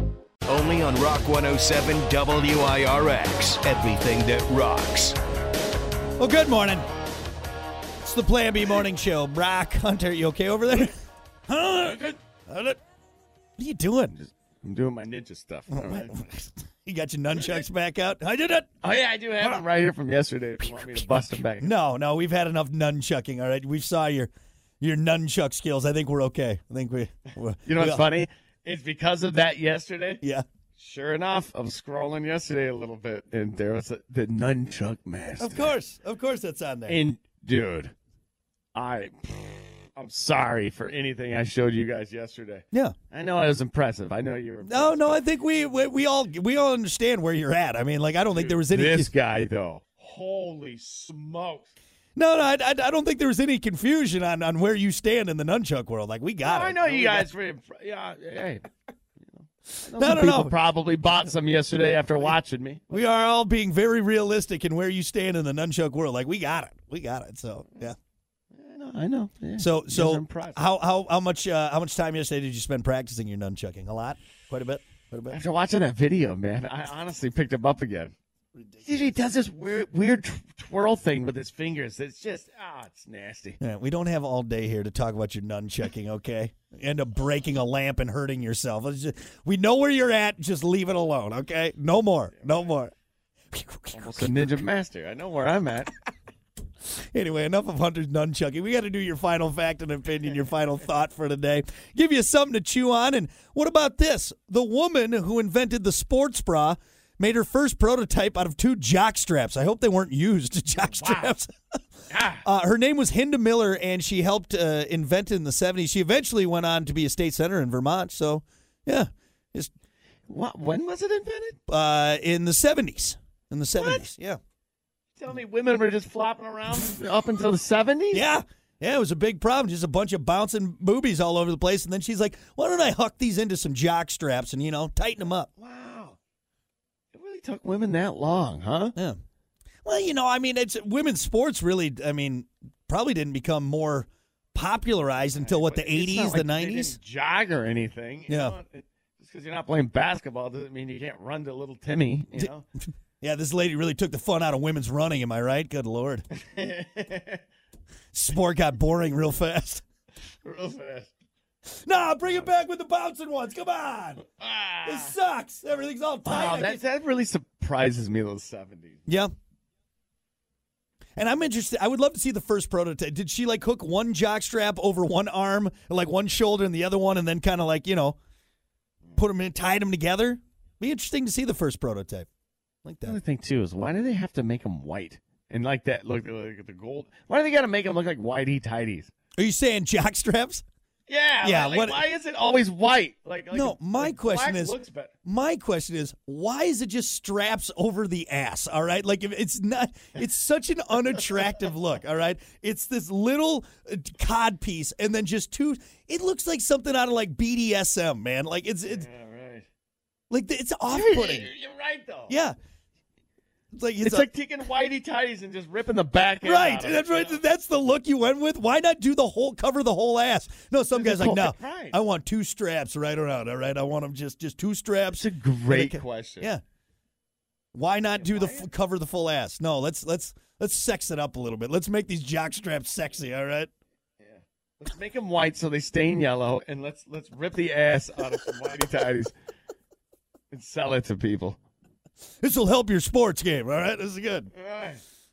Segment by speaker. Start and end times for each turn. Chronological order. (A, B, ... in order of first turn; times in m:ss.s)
0:00.5-0:05.2 A
0:06.2-0:06.9 B
0:08.0-0:11.0 B
0:11.5-0:12.8 B
0:13.6-0:14.1 B
0:14.1-0:16.1 C
0:15.7-0:18.7 B
0:17.3-0:17.6 C
0:18.8-0:21.7 C
0:21.6-0:28.0 B
0:27.7-0:30.2 C
0:30.8-0:35.7 C
0:35.4-0:37.0 B
0:36.9-0:37.9 C
0:38.7-0:45.2 C
0:44.6-0:49.1 B
0:48.3-0:51.7 C
0:52.2-0:57.3 B
0:56.4-1:03.0 C
0:59.9-1:00.6 B
1:02.9-1:08.0 B
1:08.5-1:10.6 C
1:09.6-1:15.4 B
1:15.3-1:18.1 C
1:18.6-1:19.1 B
1:18.8-1:23.6 C
1:23.6-1:32.9 B
1:32.4-1:32.7 C
1:33.5-1:34.3 B
1:33.9-1:35.9 C
1:36.9-1:51.8 B
1:50.9-1:51.3 C
1:52.1-1:52.4 C
1:52.4-1:59.7 B
2:00.3-2:01.6 C
2:01.7-2:04.4 B
2:03.8-2:04.1 C
2:05.2-2:08.2 C
2:08.1-2:15.5 B
2:15.6-2:16.2 C
2:17.1-2:18.9 C
2:19.8-2:27.0 B
2:25.3-2:32.6 C
2:28.3-2:28.6 B
2:32.4-2:36.2 B
2:36.4-2:37.4 C
2:38.1-2:39.8 B
2:40.4-2:41.1 C
2:41.7-2:44.2 B
2:44.3-2:45.1 C
2:44.8-2:46.8 B
2:46.2-2:49.0 C
2:51.2-2:58.2 B
2:59.2-3:02.3 B
3:02.8-3:03.2 B
3:03.1-3:09.1 C
3:09.4-3:10.6 B
3:11.1-3:15.1 C
3:11.4-3:12.0 B
3:13.5-3:29.1 B
3:28.9-3:29.7 C
3:30.3-3:31.5 B
3:30.9-3:32.4 C
3:32.3-3:32.5 B
3:33.7-3:34.3 B
3:34.0-3:37.4 C
3:36.4-3:46.6 B
3:40.8-3:42.0 C
3:45.1-3:46.5 C
3:47.7-3:53.7 B
3:48.2-3:48.7 C
3:54.2-3:59.3 C
4:00.5-4:01.6 C
4:02.4-4:04.5 B
4:04.5-4:05.0 C